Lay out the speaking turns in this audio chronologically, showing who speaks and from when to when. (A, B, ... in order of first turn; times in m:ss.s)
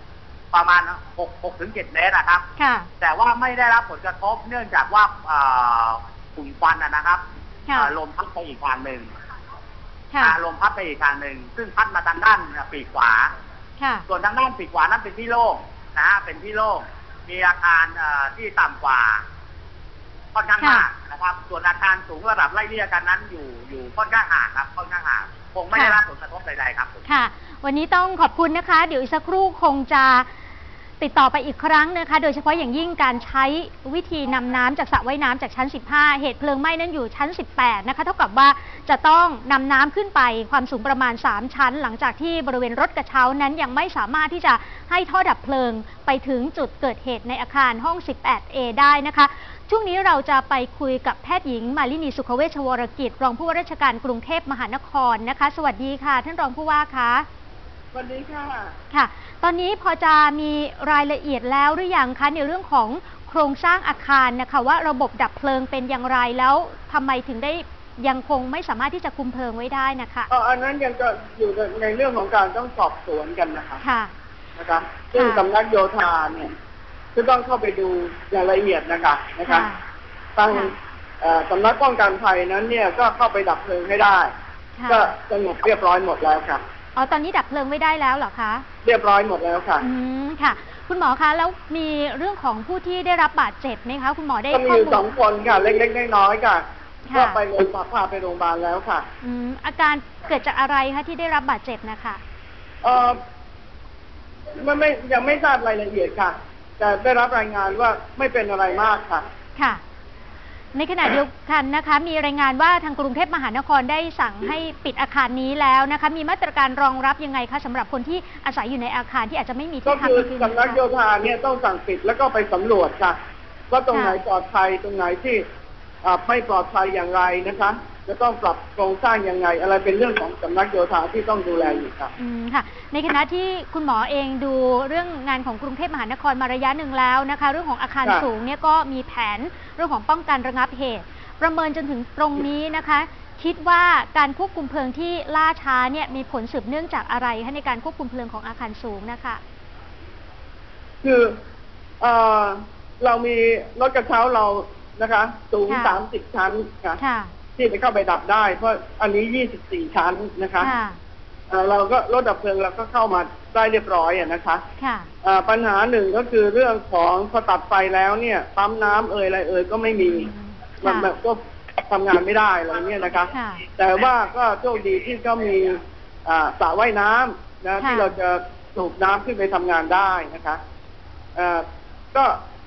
0:00.5-0:02.5 A
0:02.6-0:02.9 B
0:03.0-0:09.1 A
0:10.1-0:10.4 B
0:10.2-0:13.3 A
0:14.1-0:19.2 A
0:20.3-0:27.0 A
0:20.6-0:20.9 B
0:25.7-0:26.0 B
0:27.1-0:30.3 B
0:31.0-0:57.3 B
0:57.9-0:58.7 C
0:58.9-1:10.3 B
1:10.3-1:13.8 C
1:13.8-1:14.1 B
1:14.6-1:16.5 C
1:15.1-1:15.5 B
1:17.2-1:19.7 C
1:19.5-1:19.8 B
1:20.4-1:24.3 C
1:24.8-1:25.1 B
1:24.9-1:26.6 C
1:27.0-1:28.6 B
1:28.8-1:29.8 C
1:29.8-1:35.0 B
1:34.5-1:39.1 C
1:37.1-1:37.4 B
1:39.2-1:42.2 B
1:42.8-1:43.2 C
1:44.6-1:49.3 C
1:50.8-2:00.8 B
1:59.8-2:03.2 C
2:03.7-2:05.4 C
2:03.9-2:04.2 B
2:06.0-2:12.1 C
2:12.2-2:29.4 B
2:31.0-2:31.4 C
2:32.0-2:37.0 C
2:35.7-2:36.0 B
2:37.0-2:37.3 B
2:37.6-2:40.7 C
2:40.6-2:41.0 B
2:41.5-2:44.6 C
2:44.8-2:45.1 B
2:45.2-2:50.3 C
2:50.3-2:51.1 B
2:50.8-3:00.6 C
2:53.3-2:53.6 B
2:57.8-2:58.1 B
3:01.4-3:02.4 C